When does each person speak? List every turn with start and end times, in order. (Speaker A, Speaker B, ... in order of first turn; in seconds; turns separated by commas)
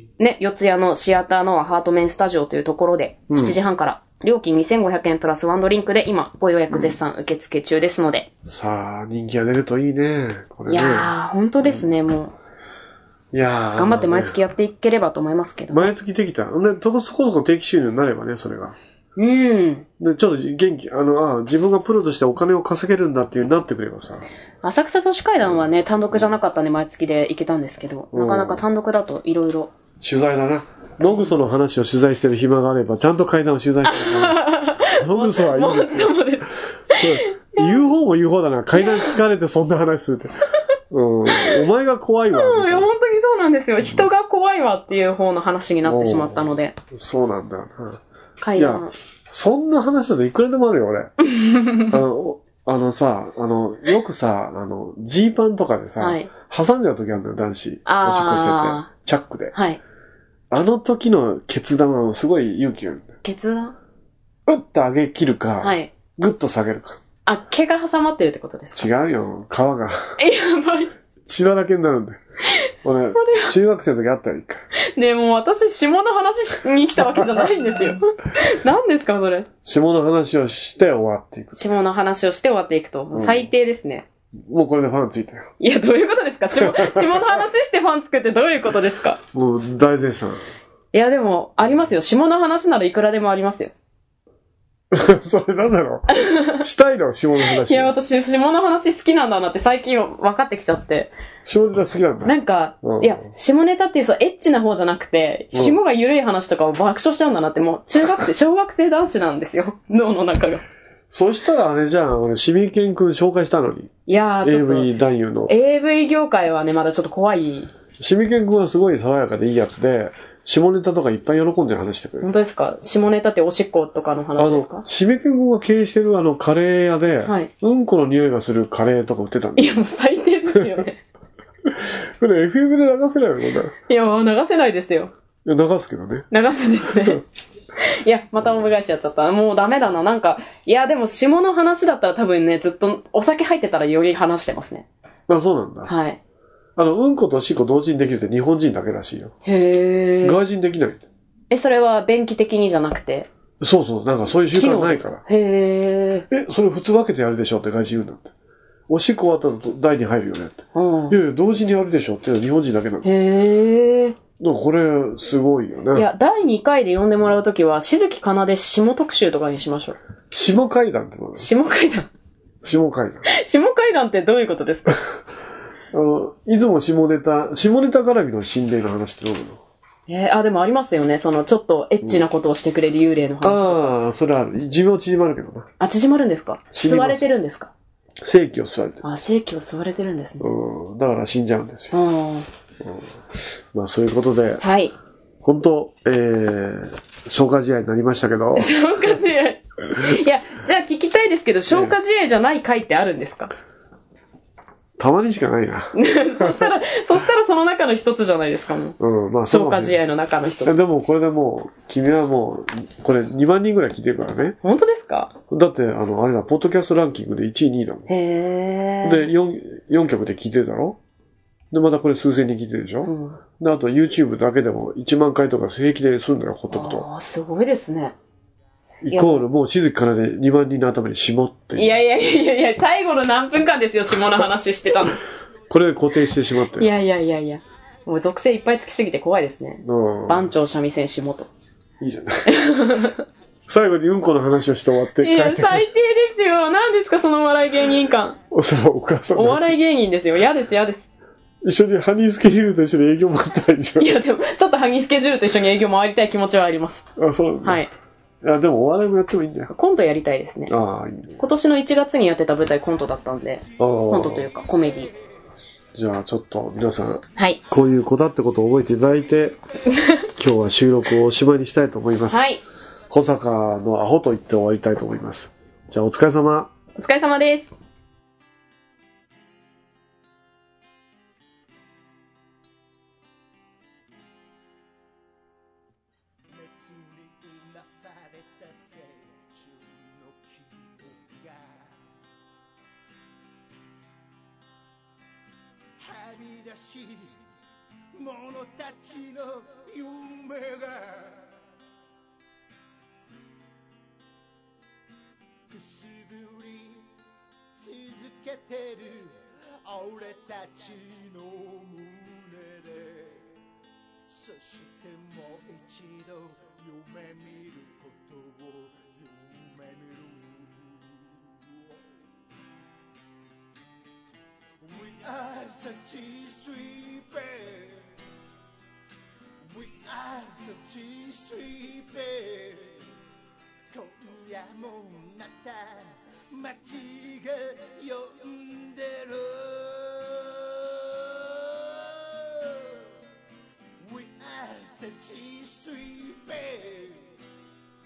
Speaker A: 0.2-8.3, Speaker B: 3.3-3.6, Speaker B: 6.7-7.0, Speaker B: 8.5-11.8, Speaker A: 10.7-12.3, Speaker B: 13.3-14.3, Speaker A: 13.8-15.9, Speaker B: 15.7-18.8, Speaker A: 19.2-19.9, Speaker B: 20.0-24.3, Speaker A: 24.6-29.7, Speaker B: 28.1-28.6, Speaker B: 30.0-36.2, Speaker A: 31.0-31.3, Speaker A: 33.9-37.8, Speaker B: 36.9-40.4, Speaker A: 38.8-39.1, Speaker B: 40.9-42.9, Speaker A: 41.3-41.6, Speaker A: 42.3-46.8, Speaker B: 45.9-48.0, Speaker A: 48.4-48.9, Speaker B: 48.6-51.1, Speaker A: 51.2-52.0, Speaker B: 51.9-59.5, Speaker A: 56.0-56.3, Speaker A: 57.9-58.9, Speaker A: 59.5-59.8, Speaker B: 60.5-63.1, Speaker A: 63.2-63.8, Speaker B: 64.5-67.0, Speaker A: 65.6-65.9, Speaker A: 67.3-68.9, Speaker B: 68.8-70.2, Speaker A: 70.2-70.9, Speaker B: 71.3-72.2, Speaker A: 72.6-73.5, Speaker B: 72.8-74.7, Speaker A: 74.8-79.5, Speaker B: 79.6-81.6, Speaker A: 81.5-84.1, Speaker B: 83.1-83.5, Speaker B: 84.5-85.5, Speaker A: 85.6-89.2, Speaker B: 86.6-87.2, Speaker B: 89.3-90.4, Speaker A: 90.9-93.7, Speaker B: 94.9-97.9, Speaker A: 96.1-96.6, Speaker A: 97.5-101.1, Speaker B: 101.5-103.2, Speaker A: 102.2-110.6, Speaker B: 105.5-105.8, Speaker B: 111.1-113.9, Speaker A: 114.1-114.9, Speaker B: 114.4-115.5, Speaker A: 115.5-117.7, Speaker B: 118.0-122.3, Speaker A: 122.2-124.8, Speaker B: 124.4-129.8, Speaker A: 127.3-127.5, Speaker A: 129.6-131.0, Speaker B: 131.7-133.7, Speaker A: 133.9-135.1, Speaker B: 135.4-136.3, Speaker A: 136.3-137.2, Speaker A: 137.8-144.9, Speaker B: 145.3-145.9, Speaker A: 145.9-146.2, Speaker B: 146.8-149.3, Speaker A: 149.4-150.4, Speaker B: 150.2-151.1, Speaker A: 151.5-153.3, Speaker B: 153.6-155.2, Speaker A: 154.5-156.3, Speaker B: 156.3-158.3, Speaker B: 158.9-163.1, Speaker A: 160.8-161.2, Speaker A: 163.0-164.2, Speaker B: 164.4-166.1, Speaker A: 165.9-170.0, Speaker B: 170.3-171.5, Speaker A: 171.4-172.1, Speaker B: 172.6-173.2, Speaker A: 173.3-175.0, Speaker B: 175.9-179.6, Speaker A: 180.1-183.8, Speaker B: 183.4-185.7, Speaker A: 185.8-187.7, Speaker B: 186.7-187.2, Speaker B: 188.2-189.0, Speaker A: 189.0-190.5, Speaker B: 190.4-191.9, Speaker A: 191.9-192.5, Speaker B: 192.8-194.6, Speaker A: 194.6-194.9, Speaker B: 195.4-198.7, Speaker A: 198.5-203.5, Speaker B: 201.7-201.9, Speaker B: 205.0-206.7, Speaker A: 205.9-210.7, Speaker B: 209.0-210.0, Speaker B: 210.6-214.6, Speaker A: 214.6-215.3, Speaker B: 215.5-218.1, Speaker A: 218.1-219.3, Speaker B: 219.0-221.0, Speaker B: 221.7-227.1, Speaker A: 223.0-223.4, Speaker A: 226.7-228.2, Speaker B: 229.0-232.0, Speaker A: 229.1-229.4, Speaker A: 231.8-235.2, Speaker B: 235.7-236.9, Speaker A: 236.8-241.5, Speaker B: 239.8-240.5, Speaker B: 242.0-242.6, Speaker A: 242.5-243.2, Speaker B: 243.7-245.8, Speaker A: 245.2-248.4, Speaker B: 248.5-249.7, Speaker A: 249.3-251.1, Speaker B: 251.6-254.2, Speaker A: 254.0-257.1, Speaker B: 257.2-257.8, Speaker A: 257.6-257.9, Speaker B: 258.4-259.7, Speaker A: 259.7-260.8, Speaker B: 260.7-261.4, Speaker A: 261.4-265.1, Speaker B: 263.8-264.5, Speaker B: 265.9-269.6, Speaker A: 267.4-267.6, Speaker B: 270.4-272.4, Speaker A: 272.3-272.6, Speaker B: 273.1-276.7, Speaker A: 277.0-277.7, Speaker C: 286.5-292.0, Speaker C: 296.0-297.4, Speaker C: 298.1-301.5, Speaker C: 305.7-307.1, Speaker C: 307.8-313.5, Speaker C: 314.3-322.1, Speaker C: 324.8-328.1, Speaker C: 329.7-333.1, Speaker C: 333.9-343.1, Speaker C: 344.0-347.3